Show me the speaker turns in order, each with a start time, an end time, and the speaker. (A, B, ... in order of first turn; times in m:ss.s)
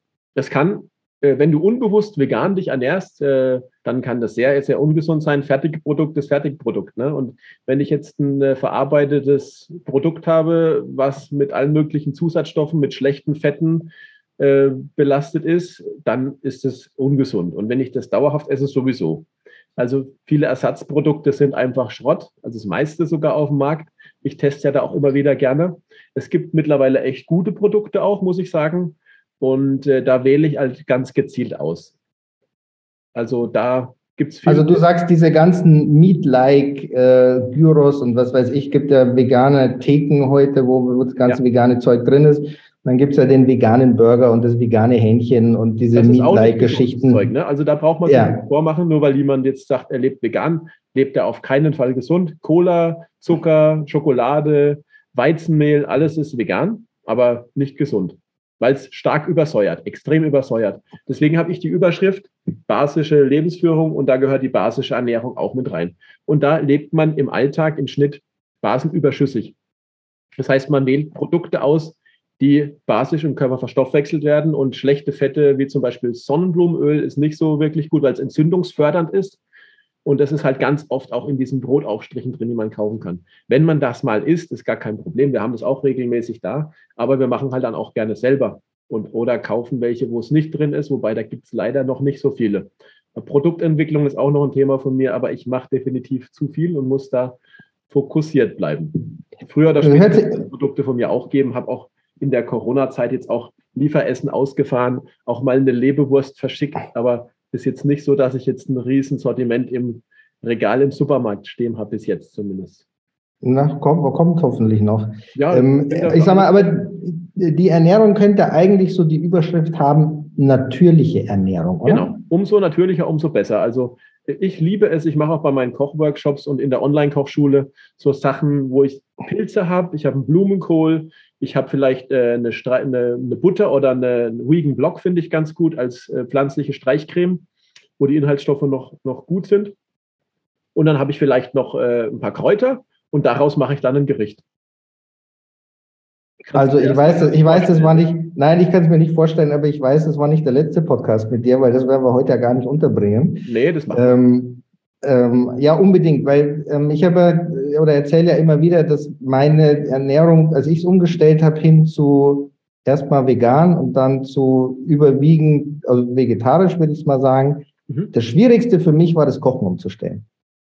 0:00.4-0:19.2 A
0:19.8-0:31.9 A
0:33.1-0:34.8 A
0:34.4-0:47.3 B
0:45.9-1:09.5 A
0:48.0-0:48.4 B
1:10.4-1:19.4 A
1:20.0-1:37.4 A
1:37.9-1:52.8 A
1:39.8-1:40.4 B
1:53.4-2:02.2 B
1:55.3-1:56.8 A
2:01.8-2:17.4 A
2:18.0-2:19.7 A
2:20.7-2:24.4 A
2:26.4-2:28.1 A
2:26.5-2:50.2 B
2:33.4-2:34.0 A